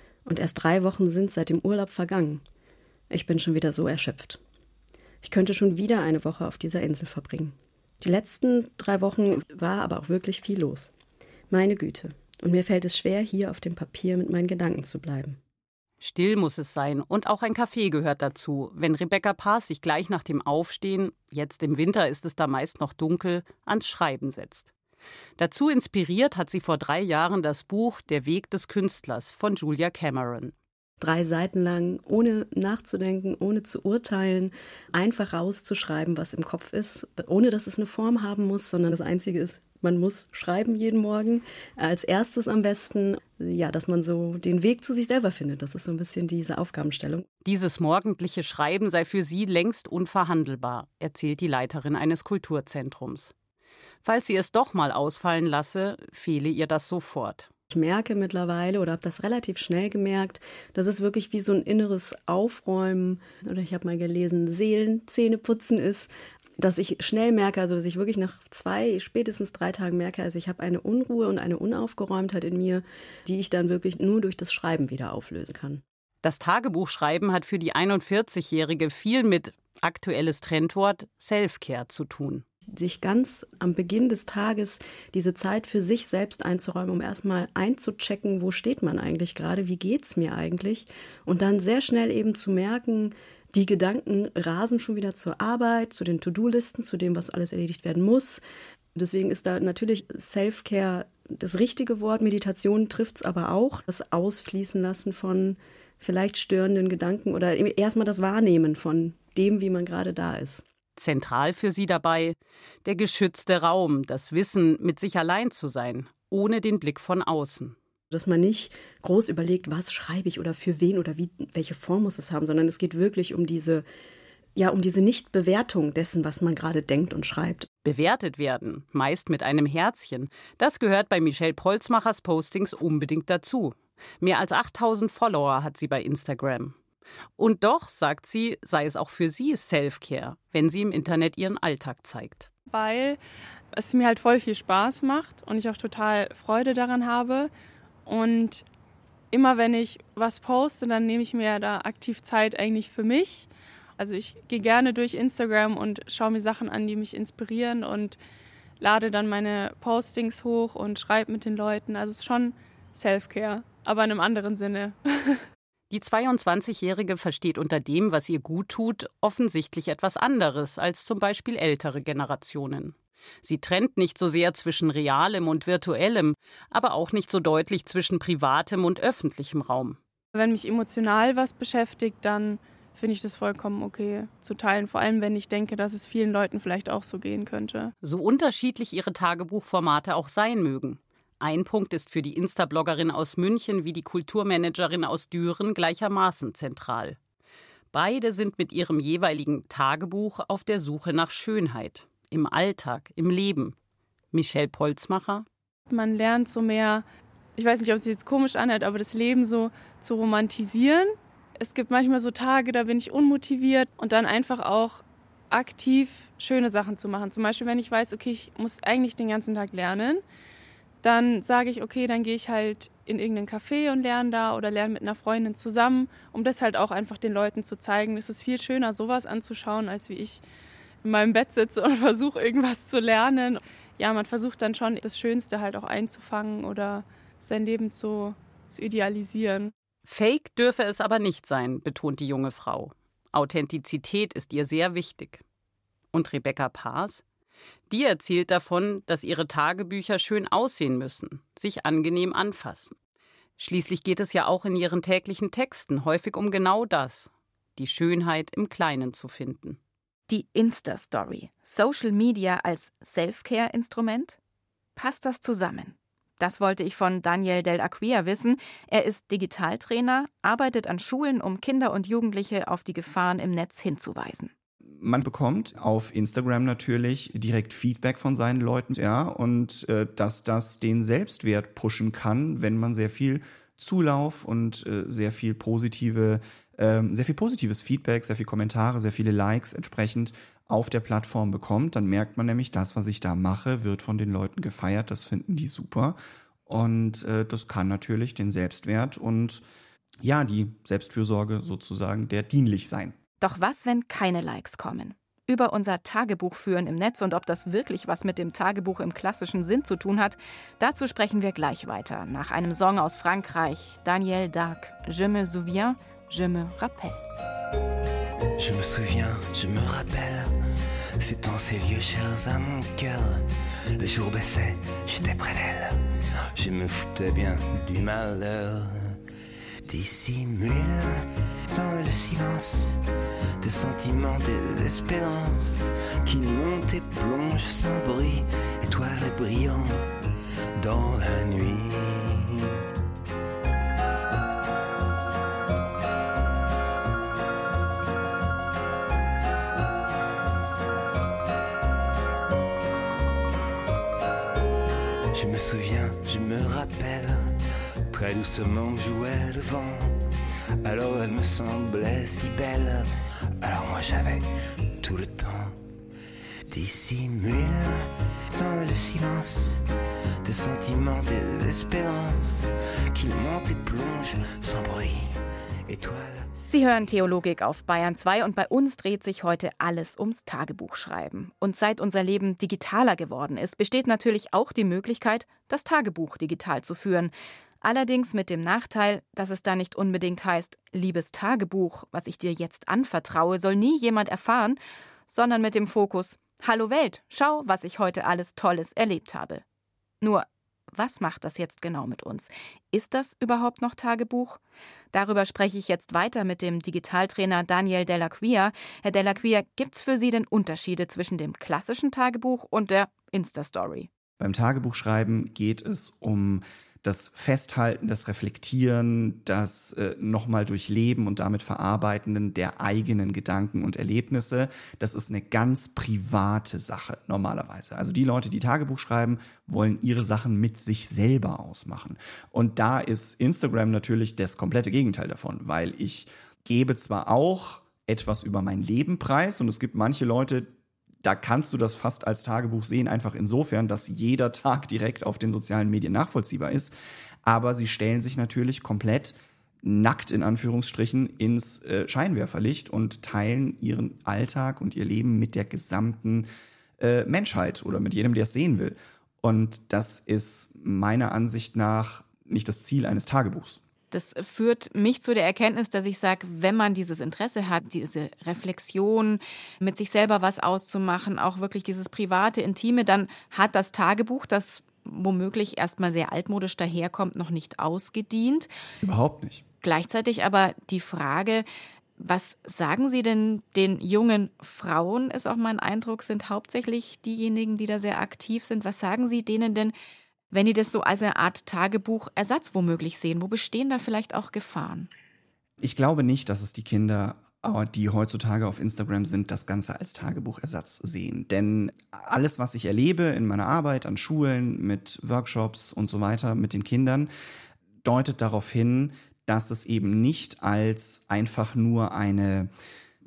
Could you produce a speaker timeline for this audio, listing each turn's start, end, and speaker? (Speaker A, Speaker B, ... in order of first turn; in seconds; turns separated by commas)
Speaker A: 0.2-2.4, Speaker A: 3.1-4.4, Speaker A: 5.2-10.9, Speaker A: 11.5-15.4, Speaker B: 16.0-24.7, Speaker B: 25.4-30.5, Speaker A: 31.0-47.2, Speaker B: 47.4-53.3, Speaker B: 54.0-57.5, Speaker A: 57.7-75.8, Speaker B: 76.2-82.4, Speaker A: 82.7-98.4, Speaker A: 98.9-110.7, Speaker B: 111.0-117.8, Speaker A: 118.1-123.8, Speaker A: 124.5-127.7, Speaker B: 127.8-136.7, Speaker B: 137.4-142.5, Speaker C: 142.7-143.2, Speaker C: 143.7-147.5, Speaker C: 148.1-148.6, Speaker C: 149.3-158.2, Speaker C: 158.8-165.4, Speaker B: 165.9-180.0, Speaker C: 180.3-187.9, Speaker B: 188.0-197.2, Speaker B: 197.9-203.8, Speaker B: 204.3-205.4, Speaker C: 205.9-207.0, Speaker C: 207.6-220.2, Speaker C: 221.0-230.4, Speaker C: 231.0-239.7, Speaker B: 240.0-245.4, Speaker B: 246.1-247.2, Speaker B: 247.9-252.9, Speaker B: 253.6-259.8, Speaker D: 260.3-264.4, Speaker D: 264.9-274.5, Speaker E: 275.0-299.6, Speaker E: 300.2-303.1, Speaker D: 303.4-317.2, Speaker F: 318.6-320.5, Speaker F: 321.2-323.4, Speaker F: 324.0-326.0, Speaker F: 326.5-329.1, Speaker F: 329.9-333.0, Speaker F: 333.6-340.1, Speaker F: 340.8-342.5, Speaker F: 355.3-357.5, Speaker F: 358.1-360.1, Speaker F: 360.8-363.1, Speaker F: 363.6-364.4, Speaker F: 365.0-365.8, Speaker F: 366.7-368.1, Speaker F: 368.6-369.8, Speaker F: 370.4-375.3, Speaker F: 375.9-376.5, Speaker D: 376.7-399.6, Speaker D: 400.2-404.6, Speaker D: 405.1-414.1, Speaker E: 414.4-440.7, Speaker E: 441.2-456.5, Speaker E: 457.0-463.8, Speaker D: 464.1-478.7, Speaker E: 479.0-479.6, Speaker D: 479.8-481.6, Speaker D: 482.2-489.9, Speaker D: 490.5-495.1, Speaker E: 495.8-507.3, Speaker E: 508.0-512.7